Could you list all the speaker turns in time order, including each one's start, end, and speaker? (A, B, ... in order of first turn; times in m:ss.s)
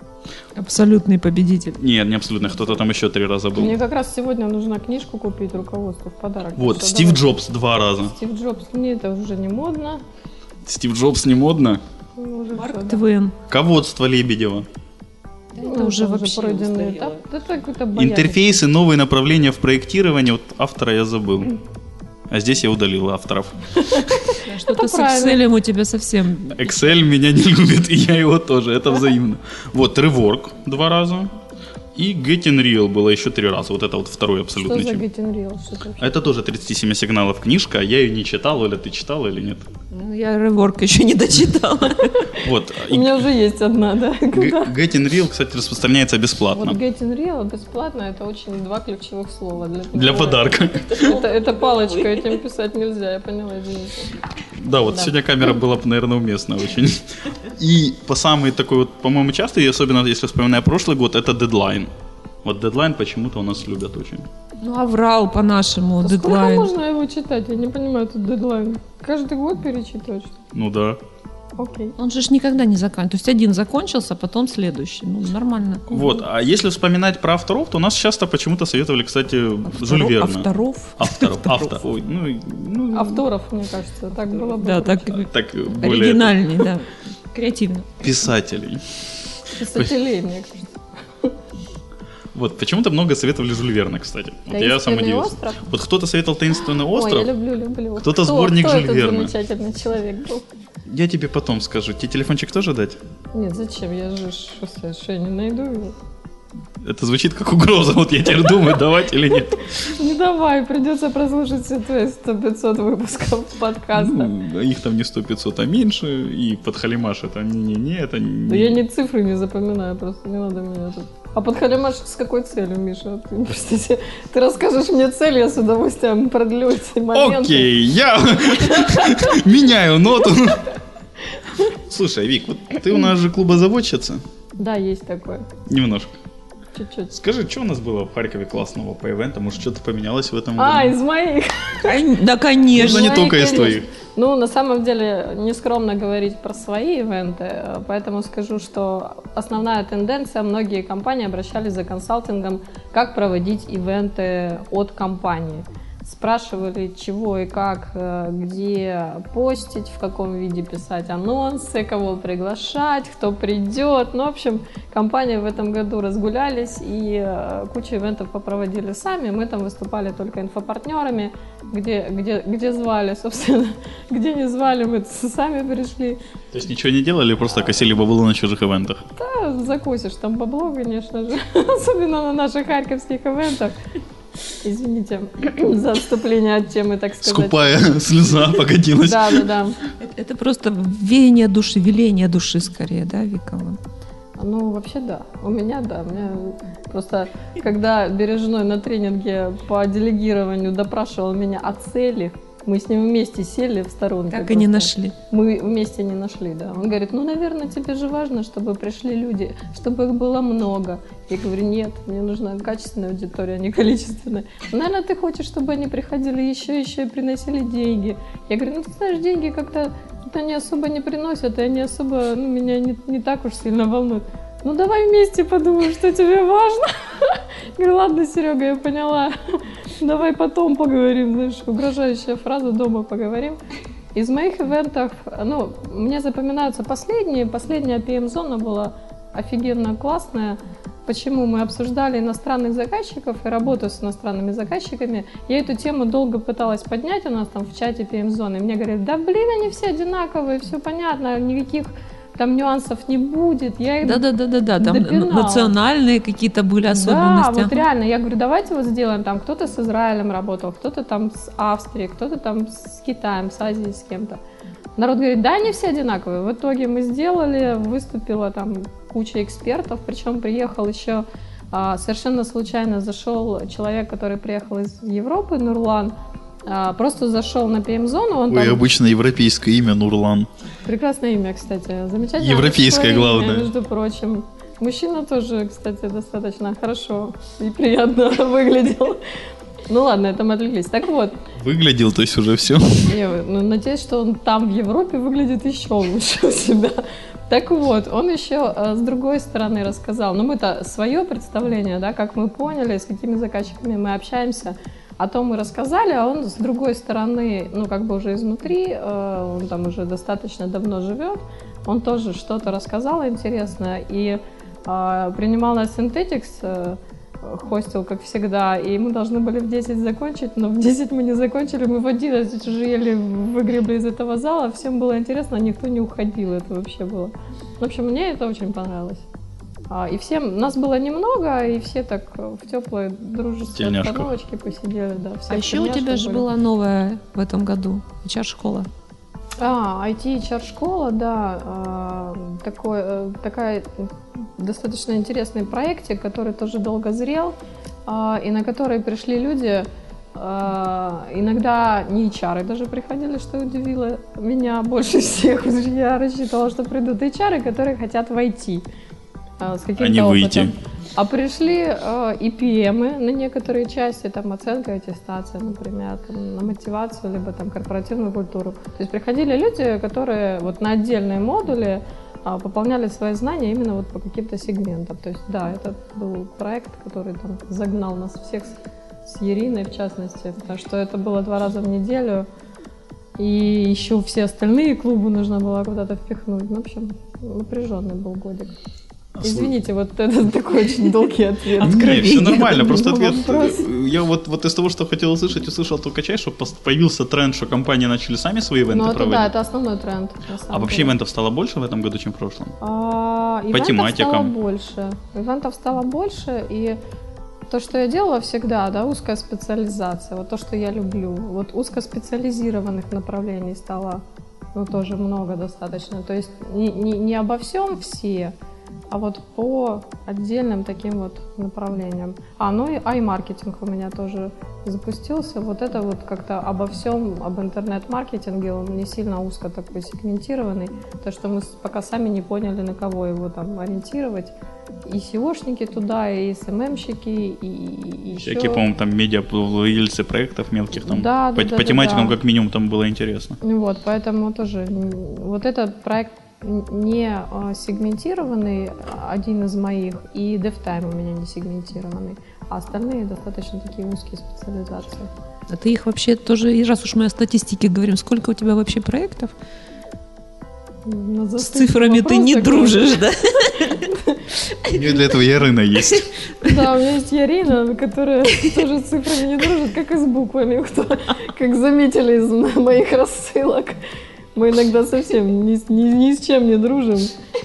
0:00.6-0:01.8 A
0:01.8-0:03.8 B
0:03.5-0:07.3 C
0:06.6-0:08.1 B
0:08.0-0:10.0 C
0:10.6-0:11.8 B
0:12.2-0:13.0 C
0:12.6-0:13.3 A
0:13.5-0:14.7 B
0:15.5-0:17.2 A
0:15.6-0:18.5 C
0:17.9-0:21.5 B
0:22.3-0:23.6 B
0:23.8-0:25.4 C
0:24.4-0:26.8 A
0:26.5-0:31.3 B
0:31.9-0:35.0 B
0:34.6-0:36.2 C
0:36.0-0:39.6 B
0:39.9-0:42.3 A
0:42.3-0:43.2 B
0:42.8-0:44.7 C
0:44.3-0:46.8 B
0:46.5-0:54.2 C
0:49.9-0:51.1 B
0:50.9-0:52.4 A
0:54.6-1:01.9 B
1:02.4-1:04.3 B
1:04.6-1:06.7 A
1:06.0-1:10.4 C
1:10.5-1:11.0 B
1:11.6-1:11.9 C
1:12.0-1:15.9 A
1:15.9-1:23.2 B
1:19.7-1:21.8 A
1:22.9-1:25.2 C
1:24.5-1:27.9 A
1:25.1-1:26.4 B
1:28.0-1:28.8 B
1:29.6-1:31.3 C
1:32.3-1:37.3 B
1:34.5-1:35.6 C
1:36.6-1:40.4 C
1:38.0-1:39.3 B
1:40.8-1:43.0 B
1:43.3-1:46.0 C
1:46.8-1:49.8 B
1:50.0-1:54.3 C
1:53.9-1:58.8 B
1:58.5-2:07.7 C
2:07.1-2:10.7 B
2:08.6-2:09.3 C
2:11.9-2:14.2 B
2:14.6-2:15.4 C
2:15.7-2:16.1 B
2:16.7-2:17.1 C
2:17.1-2:21.0 B
2:20.6-2:22.0 C
2:21.8-2:23.3 A
2:22.7-2:23.9 B
2:22.7-2:56.2 C
2:56.5-2:59.0 B
2:59.2-3:03.8 C
3:04.6-3:07.7 C
3:07.2-3:09.5 B
3:09.0-3:09.8 C
3:10.0-3:13.8 A
3:14.4-3:53.6 C
3:24.3-3:25.1 A
3:54.1-4:14.2 C
4:14.0-4:17.8 A
4:14.8-4:15.7 C
4:16.9-4:24.4 C
4:25.0-4:36.1 C
4:36.7-4:38.8 C
4:38.5-4:40.5 B
4:40.8-4:49.2 C
4:42.4-4:43.7 B
4:49.9-4:51.4 C
4:51.6-4:53.1 B
4:53.0-5:29.2 C
5:29.9-5:36.4 C
5:33.7-5:34.3 B
5:35.5-5:38.9 A
5:39.6-5:58.8 C
5:59.6-6:22.5 C
6:00.0-6:00.8 B
6:23.4-6:28.7 C
6:29.3-6:29.7 B
6:29.4-6:33.9 C
6:31.8-6:33.0 A
6:31.8-6:39.5 B
6:38.9-6:41.1 C
6:40.7-6:42.7 B
6:42.8-6:47.0 C
6:43.7-6:44.5 B
6:47.7-6:54.2 C
6:54.7-6:58.5 C
6:59.1-7:14.5 C
7:15.0-7:18.8 C
7:18.4-7:23.6 B
7:21.0-7:22.4 C
7:23.6-7:35.3 C
7:35.7-7:39.5 A
7:41.0-7:43.2 C
7:41.6-7:44.0 A
7:44.0-7:44.4 C
7:44.8-7:45.2 A
7:44.9-7:46.2 B
7:46.0-7:46.8 A
7:46.6-7:54.0 C
7:54.5-7:57.3 C